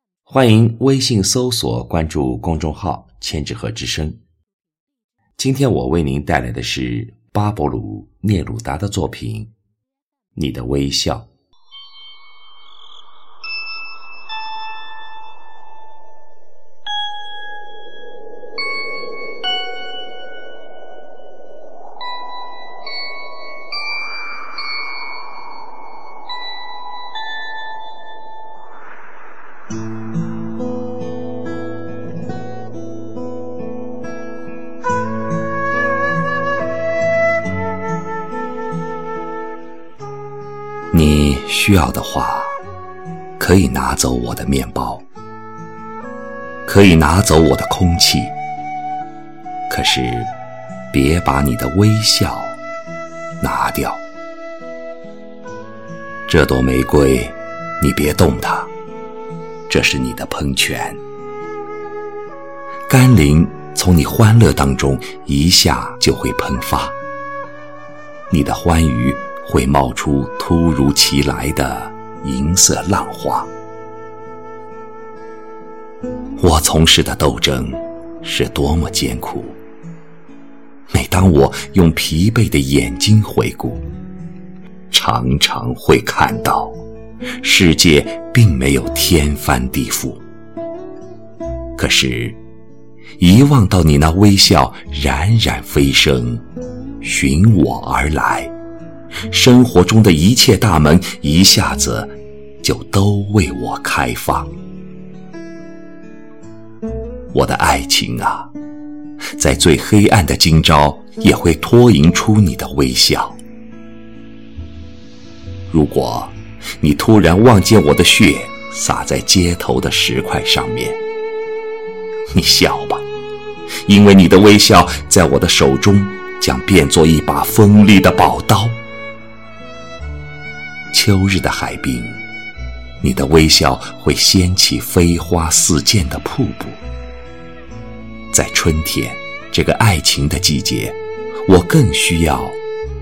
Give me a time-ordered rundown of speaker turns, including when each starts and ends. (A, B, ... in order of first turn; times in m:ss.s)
0:00.3-0:04.2 A
0:05.4-0:09.5 A
0:10.3-0:11.3 A
0:40.9-0:42.6 A
0:43.4-0:45.0 A
0:46.7-0:48.3 A
0:49.7-0:50.3 A
0:50.9-0:52.6 A
0:53.4-0:54.0 A
0:56.3-0:58.7 A
0:59.7-1:01.0 A
1:02.9-1:07.0 A
1:08.3-1:13.5 A
1:16.4-1:19.6 A
1:20.9-1:23.8 A
1:24.9-1:26.8 A
1:27.4-1:30.2 A
1:31.8-1:32.4 A
1:33.2-1:36.4 A
1:37.0-1:38.5 A
1:39.3-1:44.5 A
1:47.3-1:48.5 A
1:49.4-1:53.4 A
1:55.7-2:01.0 A
2:02.3-2:03.0 A
2:03.8-2:08.8 A
2:10.9-2:12.2 A
2:13.0-2:16.8 A
2:18.3-2:22.6 A